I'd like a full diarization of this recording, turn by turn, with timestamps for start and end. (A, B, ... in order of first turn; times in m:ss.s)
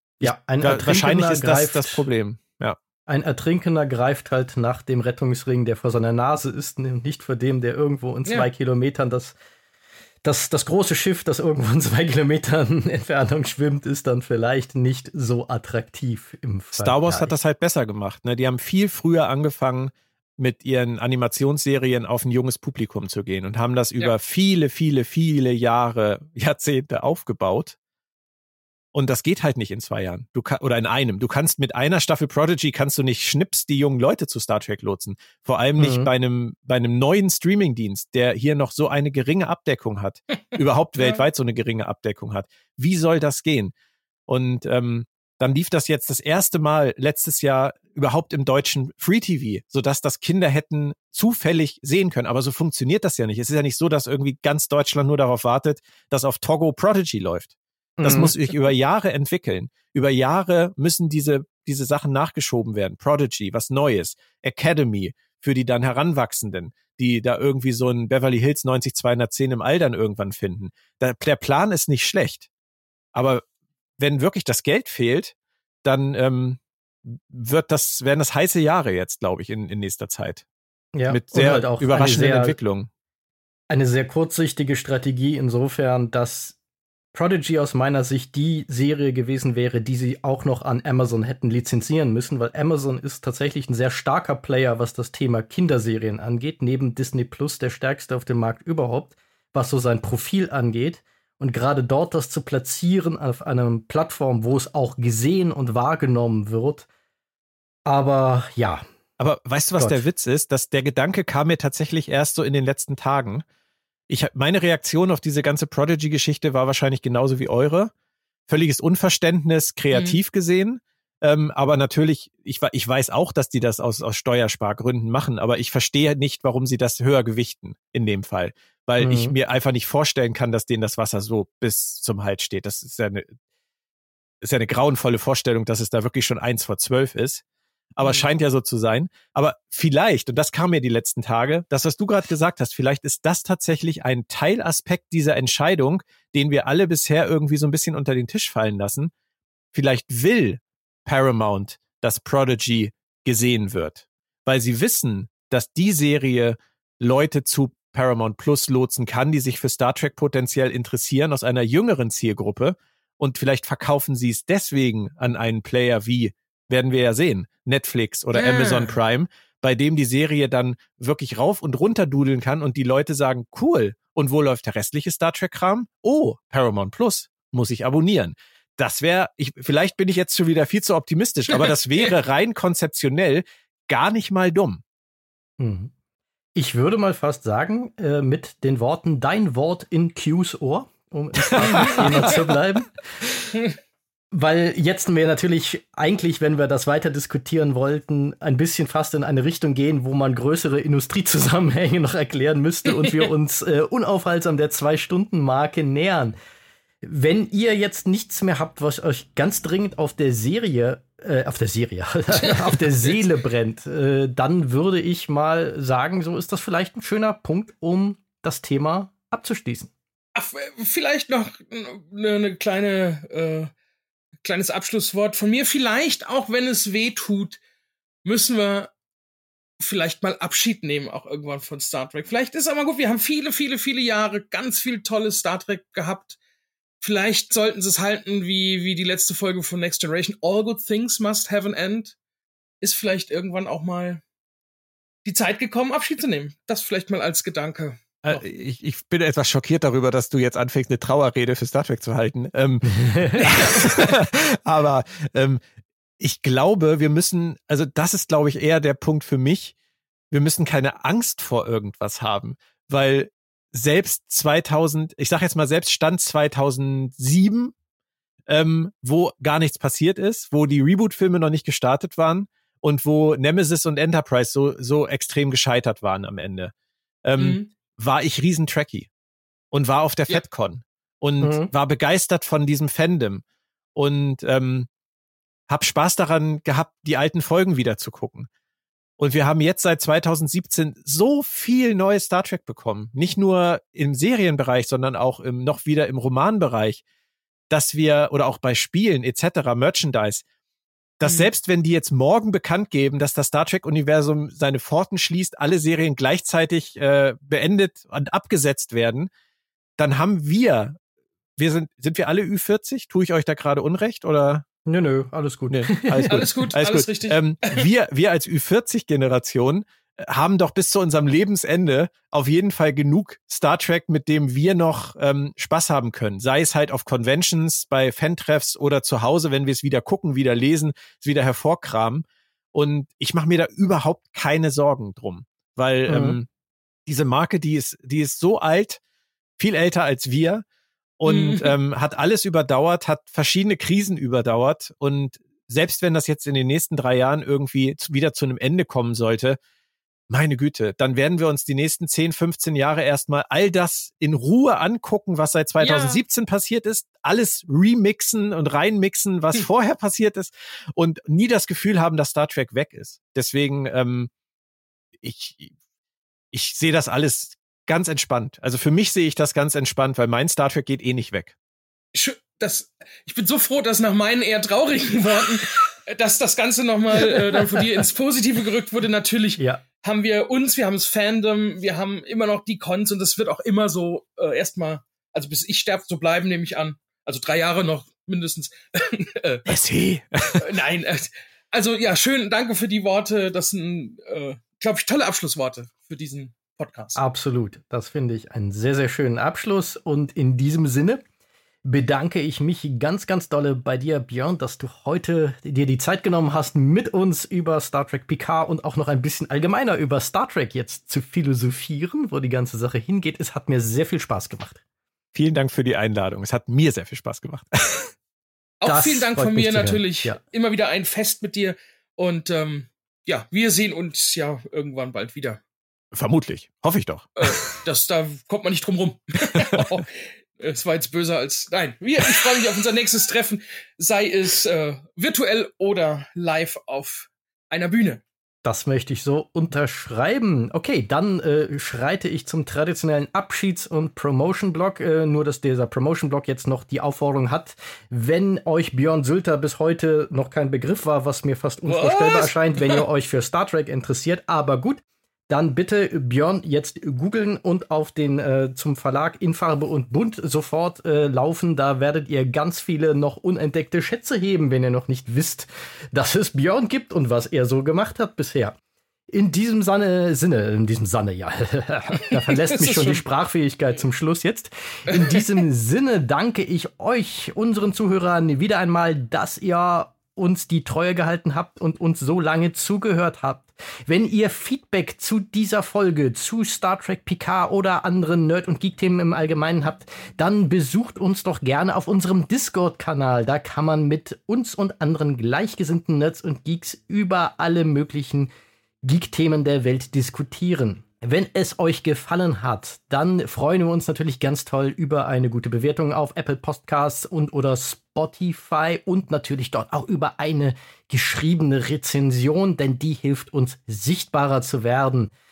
0:00.2-0:02.0 A
0:00.2-0:02.8 B
0:03.1-0:09.4 A
0:10.2-0:17.3 A
0:16.8-0:27.8 B
0:28.9-0:43.7 B
0:35.8-0:36.1 A
0:44.3-1:12.5 B
0:58.0-0:58.4 A
1:13.1-1:13.4 B
1:14.0-1:20.4 B
1:21.0-1:22.6 A
1:21.1-1:22.9 B
1:23.7-1:26.6 A
1:27.1-1:46.9 A
1:47.9-1:48.8 A
1:49.2-1:53.4 B
1:54.1-1:57.9 B
1:58.5-2:13.3 B
1:59.9-2:00.2 C
2:09.0-2:09.3 A
2:14.4-2:17.4 B
2:18.0-2:29.1 B
2:29.7-3:04.8 B
2:48.4-2:49.0 C
3:05.6-3:05.9 A
3:06.6-3:12.9 A
3:11.8-3:12.4 B
3:11.8-3:12.1 C
3:14.3-3:26.3 A
3:23.0-3:23.3 C
3:27.0-3:39.9 A
3:32.4-3:33.2 C
3:40.4-3:43.7 C
3:44.4-3:47.6 C
3:48.2-3:48.9 C
3:49.8-3:56.4 C
3:57.0-4:02.2 C
4:02.8-4:04.2 C
4:05.2-4:08.4 C
4:08.2-4:15.6 B
4:13.0-4:13.4 A
4:13.4-4:14.1 C
4:16.2-4:19.7 B
4:20.3-4:27.7 B
4:28.5-4:36.7 B
4:37.2-4:39.1 B
4:37.4-4:37.7 C
4:39.7-4:43.4 B
4:41.4-4:41.7 A
4:44.0-4:44.9 B
4:45.7-4:48.5 B
4:49.2-4:57.0 B
4:57.7-5:00.4 B
5:01.2-5:09.3 B
5:01.2-5:01.5 C
5:10.0-5:11.0 B
5:11.6-5:14.6 B
5:14.9-5:16.5 A
5:15.7-5:36.5 B
5:16.3-5:17.9 C
5:36.1-5:36.4 A
5:37.1-5:39.0 B
5:39.6-5:40.6 B
5:41.2-5:49.6 B
5:41.2-5:41.8 C
5:50.3-6:04.3 B
5:55.8-5:56.2 C
6:05.2-6:05.7 B
6:06.5-6:11.6 B
6:12.1-6:29.7 C
6:17.4-6:17.6 A
6:29.7-6:30.7 B
6:30.6-6:37.2 C
6:37.2-6:41.2 A
6:41.9-6:54.8 A
6:55.3-6:58.1 B
6:58.8-7:05.6 C
6:58.8-7:00.4 A
7:06.1-7:07.8 B
7:07.4-7:18.2 C
7:18.6-7:48.8 A
7:31.9-7:33.0 C
7:49.3-8:18.5 A
7:52.3-7:53.2 C
7:55.1-7:55.4 C
8:19.0-8:35.3 A